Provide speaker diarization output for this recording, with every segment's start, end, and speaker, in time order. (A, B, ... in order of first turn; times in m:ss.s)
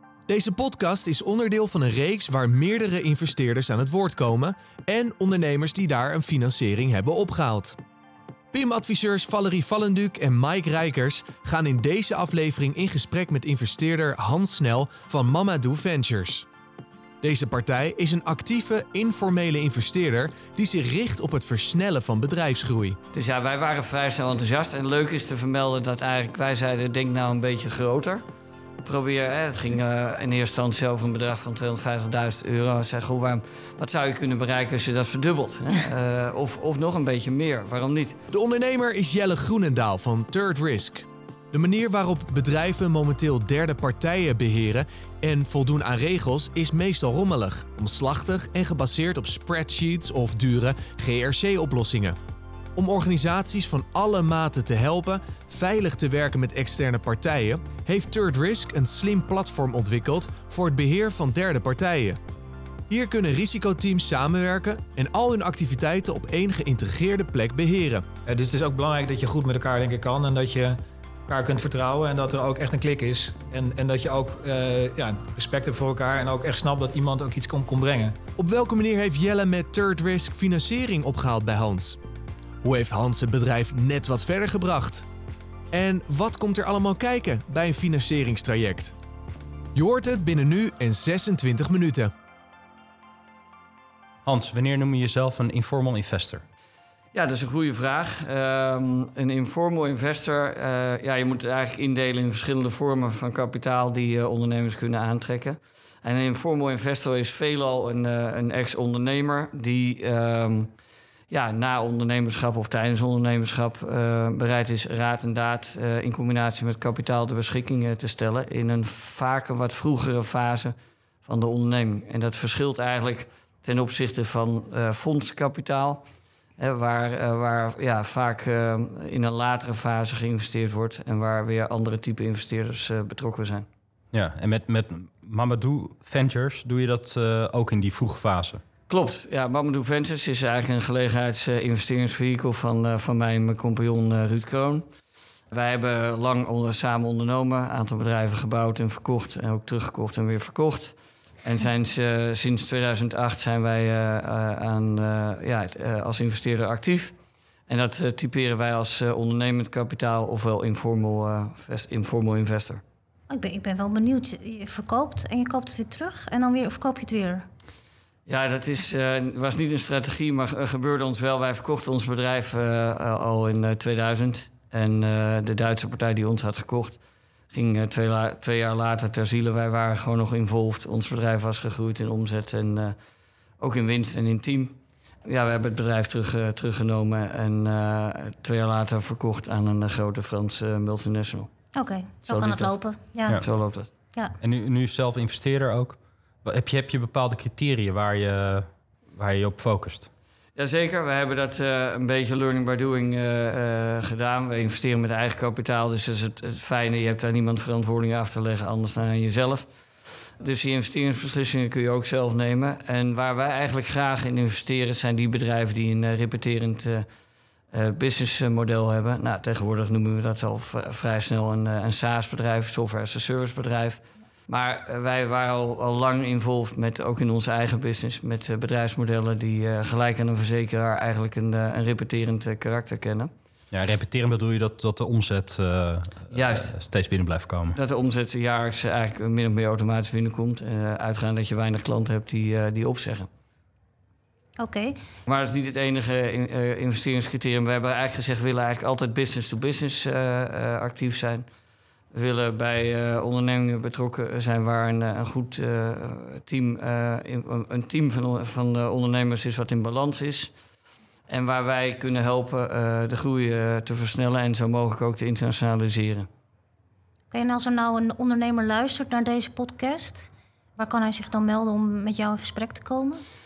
0:00.3-0:07.8 A
0:08.5-0:16.5 A
0:17.2-0:23.0 A
0:23.1-0:28.2 B
0:28.8-0:38.2 B
0:38.3-0:52.2 A
0:52.8-1:02.2 A
1:02.9-1:08.0 A
1:08.3-1:18.2 C
1:18.4-1:22.0 A
1:22.6-1:25.1 A
1:25.7-1:29.0 A
1:29.7-1:32.1 A
1:34.2-1:36.4 D
1:37.1-1:50.7 B
1:51.3-2:06.0 B
2:06.6-2:13.7 B
2:14.1-2:18.6 D
2:18.9-2:24.9 B
2:25.5-2:37.2 B
2:37.7-2:42.8 B
2:43.3-2:47.5 E
2:48.3-2:57.0 B
2:57.5-3:03.0 B
3:03.6-3:11.5 B
3:11.8-3:13.4 E
3:12.3-3:13.9 B
3:14.4-3:20.1 D
3:20.6-3:29.7 B
3:30.4-3:37.1 B
3:37.7-3:53.3 B
3:53.7-3:57.8 D
3:56.3-3:56.8 B
3:57.7-4:03.3 B
4:04.6-4:05.0 E
4:05.3-4:11.5 B
4:12.1-4:20.5 B
4:21.3-4:26.3 B
4:27.3-4:33.2 E